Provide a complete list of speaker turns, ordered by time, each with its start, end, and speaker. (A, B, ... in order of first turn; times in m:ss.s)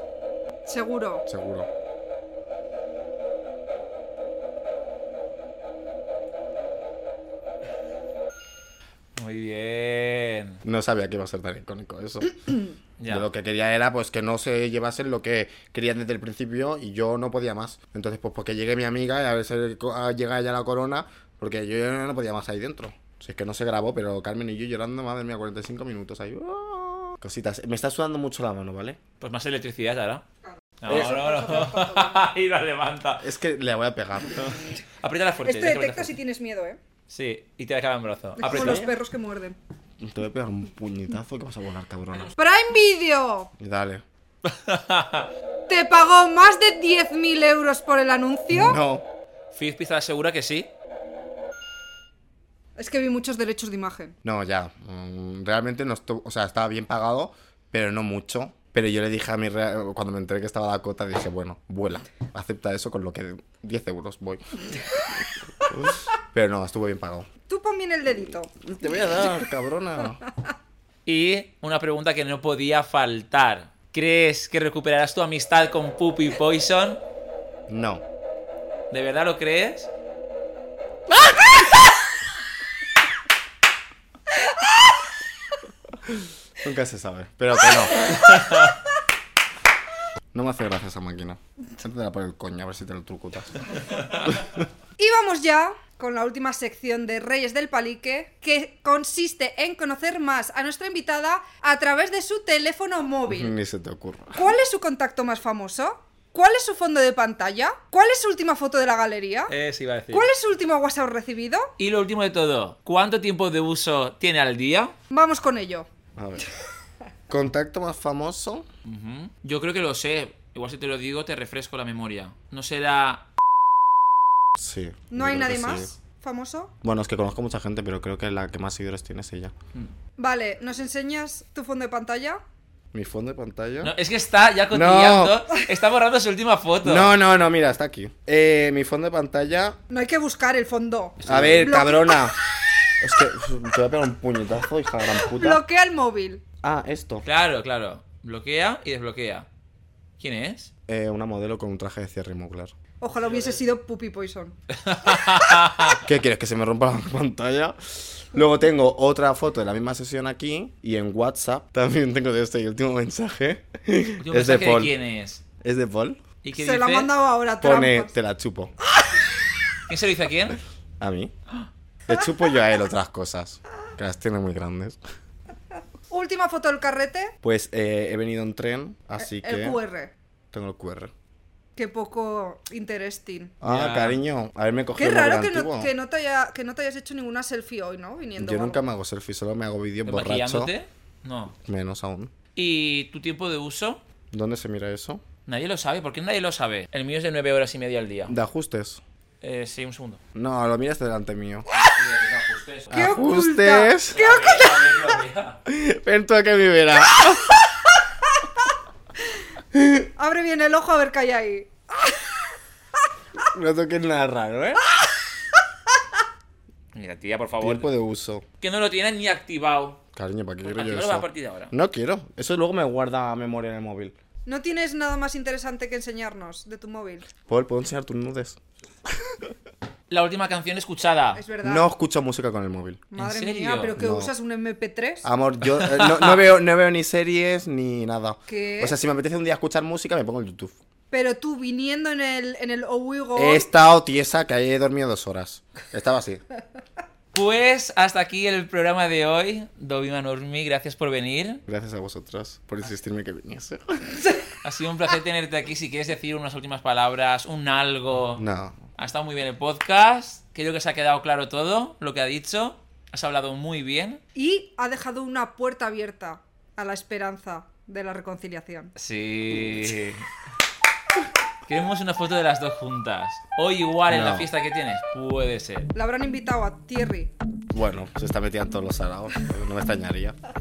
0:00.7-0:01.3 A
0:01.3-0:01.7 B
0:09.2-0:10.6 C
0:10.6-0:12.4 B
0:13.0-0:13.3 C
0:13.1-0:29.0 B
0:29.2-0:30.2 C
0:30.8-0:33.3 C
0:30.9-0:31.2 B
0:30.9-0:32.2 A
0:33.2-0:34.5 B
0:34.4-0:36.1 C
0:35.4-0:36.8 A
0:37.1-0:38.9 C
0:38.4-0:39.6 A
0:38.5-0:39.0 B
0:40.0-0:42.3 B
0:42.4-0:43.5 A
0:43.6-0:44.0 B
0:44.4-0:45.3 C
0:45.7-0:48.8 A
0:48.5-0:49.1 B
0:49.5-0:50.7 C
0:52.8-0:54.2 A
0:54.2-1:04.4 B
1:05.6-1:07.3 B
1:07.5-1:08.5 A
1:08.2-1:10.2 B
1:11.1-1:17.0 C
1:17.7-1:18.0 B
1:18.9-1:19.9 C
1:26.1-1:28.1 B
1:28.2-1:28.7 C
1:30.3-1:33.6 B
1:34.3-1:34.6 B
1:35.0-1:43.5 A
1:43.3-1:44.5 B
1:44.3-1:49.5 A
1:49.5-1:50.3 C
1:50.1-1:51.7 A
1:51.8-1:55.0 C
1:55.1-1:55.9 A
1:56.2-1:56.4 B
1:57.3-1:58.7 B
1:58.8-2:03.2 C
2:04.6-2:05.9 B
2:05.1-2:06.7 A
2:06.8-2:09.5 B
2:10.2-2:12.4 A
2:12.9-2:13.9 B
2:13.8-2:17.1 C
2:14.7-2:15.4 B
2:16.8-2:19.8 B
2:19.9-2:22.3 A
2:21.2-2:21.7 C
2:21.2-2:22.4 B
2:23.0-2:25.6 B
2:25.1-2:26.4 A
2:26.6-2:27.3 B
2:27.2-2:29.5 C
2:30.2-2:30.7 C
2:30.9-2:32.8 B
2:33.0-2:34.6 A
2:33.2-2:33.6 C
2:34.8-2:36.0 C
2:36.0-2:45.0 B
2:44.2-2:45.4 C
2:45.6-2:46.2 B
2:46.4-2:47.1 C
2:46.6-2:48.1 A
2:47.6-2:48.7 B
2:49.9-2:50.6 C
2:51.0-2:51.3 B
2:52.1-2:55.0 B
2:56.1-2:57.3 A
2:57.4-2:59.8 B
2:59.2-3:00.1 A
3:00.5-3:01.1 B
3:01.8-3:03.6 A
3:03.6-3:05.9 B
3:03.6-3:04.2 C
3:05.0-3:08.8 A
3:08.4-3:10.7 B
3:10.0-3:11.6 C
3:11.6-3:12.3 B
3:12.6-3:14.0 C
3:14.3-3:15.2 B
3:15.5-3:18.3 C
3:18.3-3:19.0 B
3:19.4-3:20.2 C
3:20.4-3:21.7 B
3:21.7-3:23.2 C
3:22.9-3:24.2 B
3:22.9-3:25.2 A
3:24.1-3:25.6 C
3:25.7-3:27.6 B
3:29.7-3:30.1 B
3:30.2-3:32.3 A
3:33.4-3:34.8 B
3:37.0-3:37.9 C
3:37.6-3:38.4 B
3:38.6-3:40.0 C
3:40.1-3:44.2 B
3:40.6-3:41.7 C
3:44.5-3:47.3 A
3:47.5-3:49.5 B
3:50.1-3:51.4 C
3:51.4-3:51.9 A
3:51.6-3:53.0 B
3:53.1-3:55.3 A
3:53.2-3:54.0 C
3:54.0-3:54.3 B
3:55.2-4:00.8 B
3:55.7-3:56.4 C
3:58.5-3:59.0 A
4:01.1-4:03.7 A
4:03.4-4:06.4 B
4:07.3-4:11.6 C
4:11.7-4:14.2 B
4:14.6-4:18.4 C
4:18.4-4:18.8 B
4:19.0-4:24.2 C
4:24.4-4:28.9 A
4:29.0-4:30.3 C
4:31.7-4:35.9 C
4:34.1-4:34.5 B
4:36.0-4:37.3 A
4:37.7-4:40.4 B